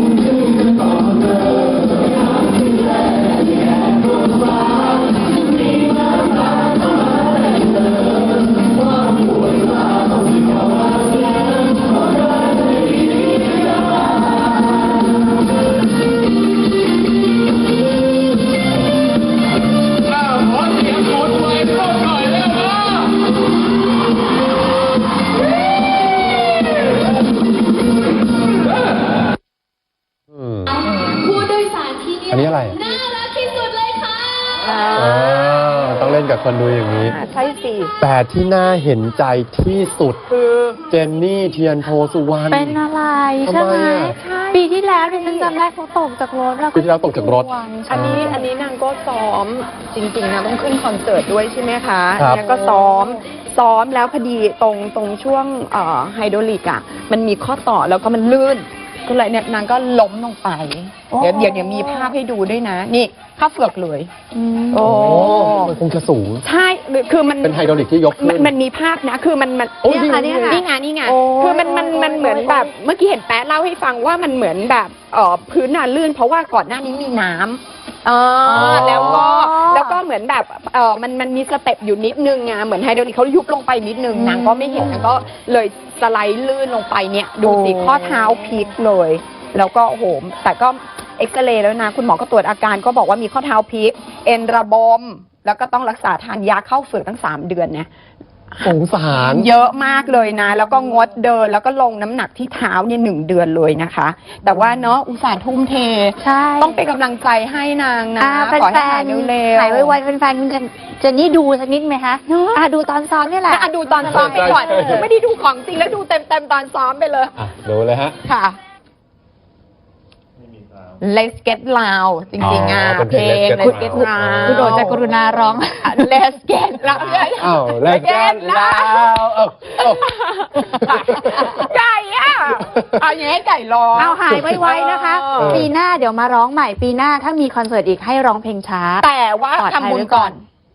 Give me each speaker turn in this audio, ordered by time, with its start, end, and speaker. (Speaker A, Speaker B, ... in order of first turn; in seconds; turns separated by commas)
Speaker A: 30.3-30.8, Speaker B: 31.3-32.2, Speaker A: 32.3-32.8, Speaker B: 34.6-34.9, Speaker C: 34.6-35.3, Speaker A: 34.9-37.2, Speaker C: 37.0-37.9, Speaker A: 38.0-40.2, Speaker C: 40.3-40.9, Speaker A: 40.9-42.8, Speaker B: 42.5-48.4, Speaker A: 43.4-44.2, Speaker C: 44.1-45.5, Speaker A: 46.7-48.4, Speaker C: 47.9-64.1, Speaker B: 52.2-53.2, Speaker B: 61.1-62.1, Speaker B: 64.3-65.5, Speaker C: 64.7-65.7, Speaker A: 64.8-66.5, Speaker C: 66.4-67.6, Speaker A: 67.4-68.5, Speaker C: 68.2-97.9, Speaker B: 69.8-72.7, Speaker B: 78.5-80.0, Speaker A: 78.5-79.2, Speaker B: 84.1-85.0, Speaker A: 84.8-85.3, Speaker B: 87.4-88.6, Speaker A: 98.6-99.5, Speaker C: 98.6-110.0, Speaker B: 104.5-104.9, Speaker B: 106.2-106.8, Speaker B: 108.2-115.0, Speaker C: 112.3-112.6, Speaker C: 113.5-117.3, Speaker A: 114.0-115.1, Speaker A: 117.4-118.2, Speaker C: 118.2-118.5, Speaker C: 121.0-125.0, Speaker A: 122.4-125.1, Speaker B: 123.6-127.3, Speaker C: 125.8-129.2, Speaker A: 127.4-131.7, Speaker B: 128.2-129.0, Speaker C: 129.8-135.6, Speaker B: 133.9-140.4, Speaker A: 134.3-134.6, Speaker A: 135.4-135.7, Speaker C: 139.0-140.4